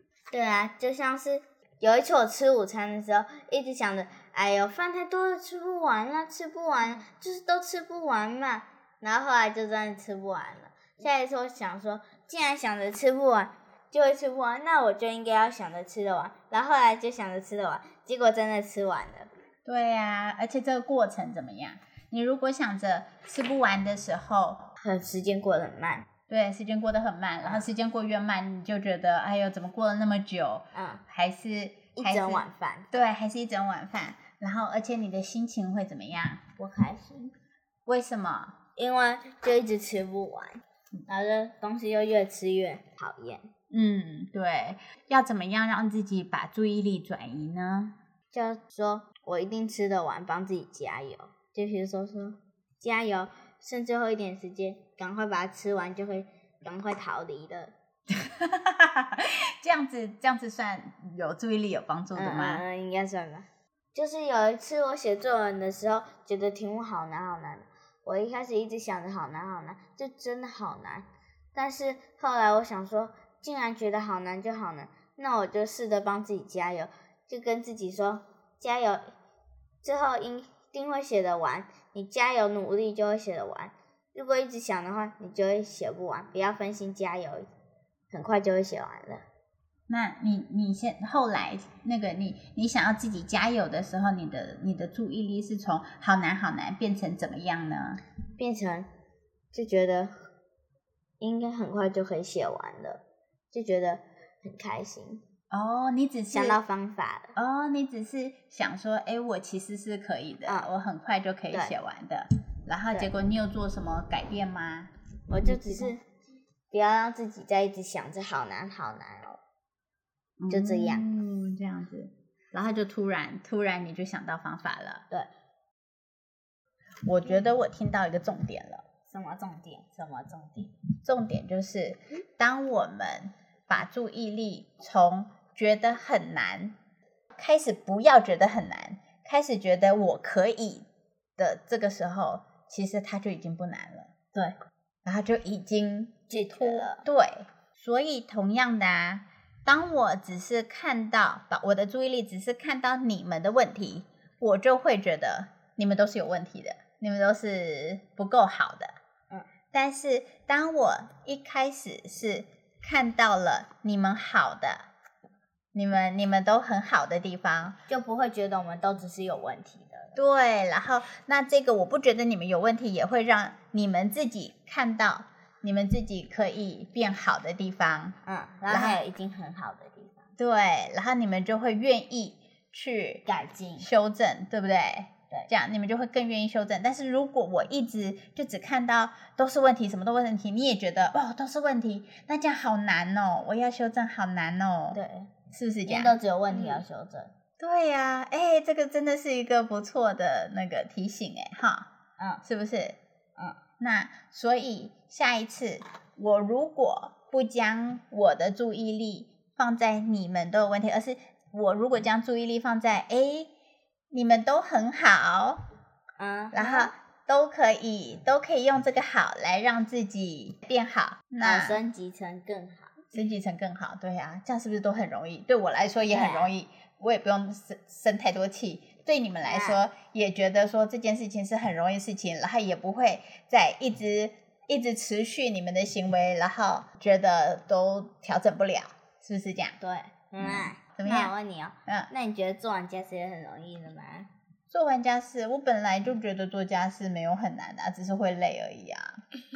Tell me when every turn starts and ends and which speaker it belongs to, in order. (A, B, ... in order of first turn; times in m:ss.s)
0:00.3-0:19.3 A
0:19.6-0:24.7 B
0:24.8-0:26.0 A
0:26.3-0:36.4 B
0:30.7-0:31.0 A
0:32.0-0:32.9 A
0:36.6-0:37.3 A
0:37.9-0:38.6 B
0:38.8-0:43.5 A
0:43.7-0:47.9 B
0:48.3-0:57.7 A
0:58.1-1:02.6 B
1:02.1-1:19.1 A
1:19.8-1:27.5 A
1:28.1-1:29.2 A
1:29.9-1:38.0 B
1:38.4-1:38.9 A
1:39.5-1:40.1 A
1:41.2-1:45.2 A
1:45.5-1:46.6 B
1:46.3-1:47.3 A
1:47.4-1:54.9 B
1:50.4-1:50.7 A
1:55.3-1:56.0 A
1:55.4-1:55.9 B
1:56.7-1:59.4 A
2:00.4-2:05.0 B
2:00.5-2:01.1 A
2:07.1-2:08.8 B
2:09.1-2:10.7 A
2:11.0-2:16.8 B
2:17.4-2:20.9 B
2:21.4-2:24.1 B
2:25.1-2:38.9 B
2:26.3-2:27.0 A
2:39.7-2:44.9 B
2:45.7-2:47.8 B
2:47.9-2:50.2 A
2:50.2-2:58.2 B
2:58.2-3:00.2 A
2:58.7-2:59.0 B
3:00.4-3:03.2 B
3:03.2-3:03.9 A
3:03.8-3:16.8 B
3:14.9-3:15.3 A
3:15.9-3:17.3 A
3:17.6-3:21.9 B
3:22.4-3:23.0 B
3:23.8-3:33.5 B
3:34.1-3:35.6 B
3:36.2-3:36.9 A
3:36.5-3:41.8 B
3:41.4-3:42.9 A
3:43.1-3:59.8 B
3:46.1-3:46.5 A
3:49.4-3:49.8 A
3:59.8-4:04.3 A
4:00.4-4:01.3 B
4:04.7-4:09.2 B